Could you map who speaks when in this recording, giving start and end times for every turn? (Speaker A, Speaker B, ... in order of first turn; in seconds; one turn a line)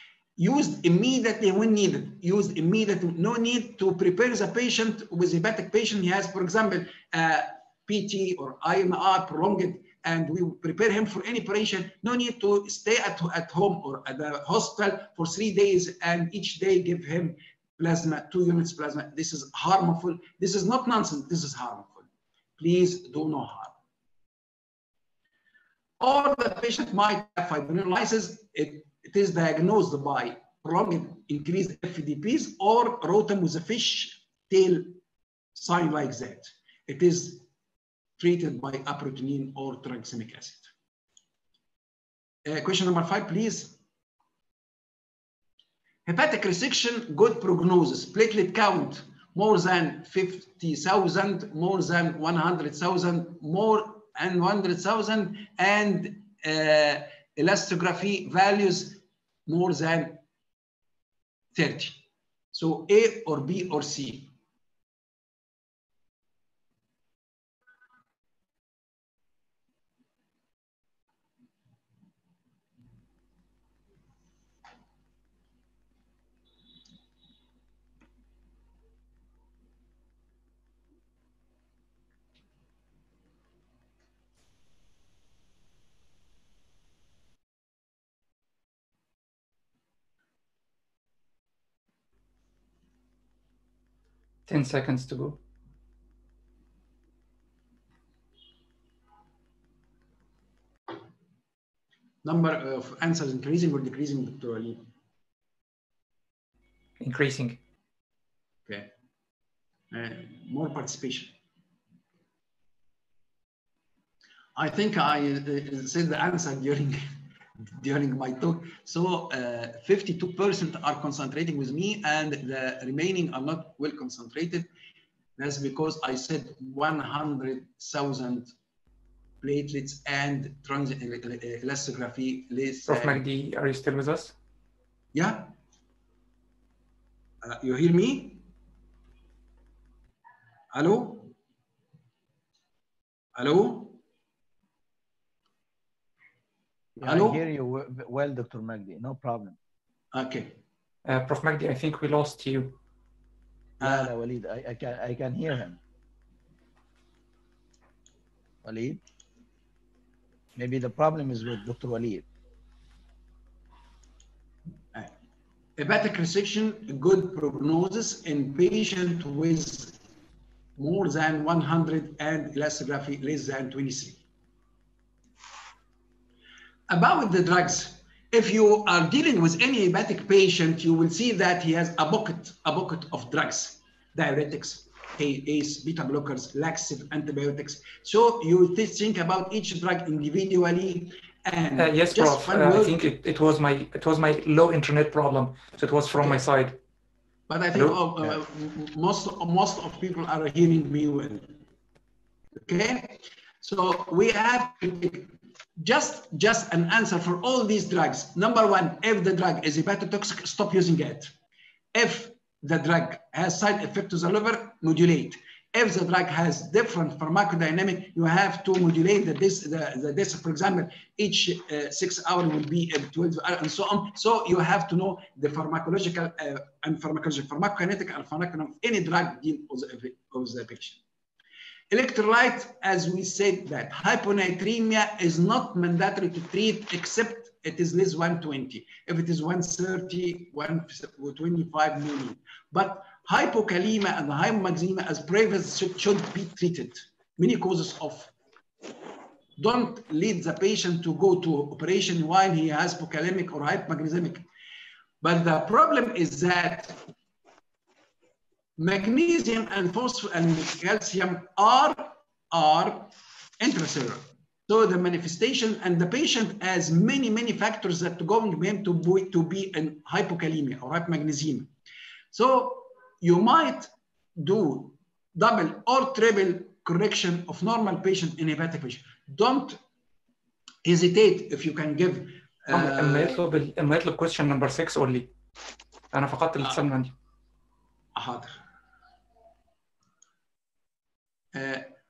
Speaker A: 0.4-22.1
Speaker A: 22.6-23.7
Speaker A: 26.0-35.0
Speaker A: 35.5-37.5
Speaker A: 38.2-40.7
Speaker A: 42.4-43.8
Speaker A: 46.0-60.2
Speaker A: 61.5-64.3
Speaker B: 94.5-95.4
Speaker A: 102.2-104.8
Speaker B: 107.0-107.6
Speaker A: 109.9-111.3
Speaker A: 114.5-117.0
Speaker A: 117.7-124.7
Speaker A: 125.4-128.5
Speaker A: 129.4-133.2
Speaker B: 132.9-134.3
Speaker A: 135.1-135.5
Speaker A: 137.4-138.4
Speaker A: 140.7-141.3
Speaker A: 143.3-144.0
Speaker A: 147.0-147.4
Speaker C: 147.0-149.6
Speaker A: 150.1-150.6
Speaker B: 151.0-152.8
Speaker A: 153.8-154.1
Speaker C: 153.8-155.8
Speaker C: 158.6-159.0
Speaker C: 160.6-162.2
Speaker A: 165.8-170.0
Speaker A: 170.8-174.2
Speaker A: 176.9-193.0
Speaker B: 191.8-196.8
Speaker A: 196.1-196.4
Speaker A: 197.5-201.5
Speaker A: 202.6-211.3
Speaker A: 211.9-231.0
Speaker A: 231.9-248.3
Speaker A: 249.6-254.4
Speaker A: 255.2-257.0
Speaker A: 258.8-271.7
Speaker A: 272.3-279.8
Speaker A: 280.8-283.4
Speaker B: 282.7-285.3
Speaker B: 286.1-287.1
Speaker A: 288.1-288.6
Speaker A: 291.5-291.9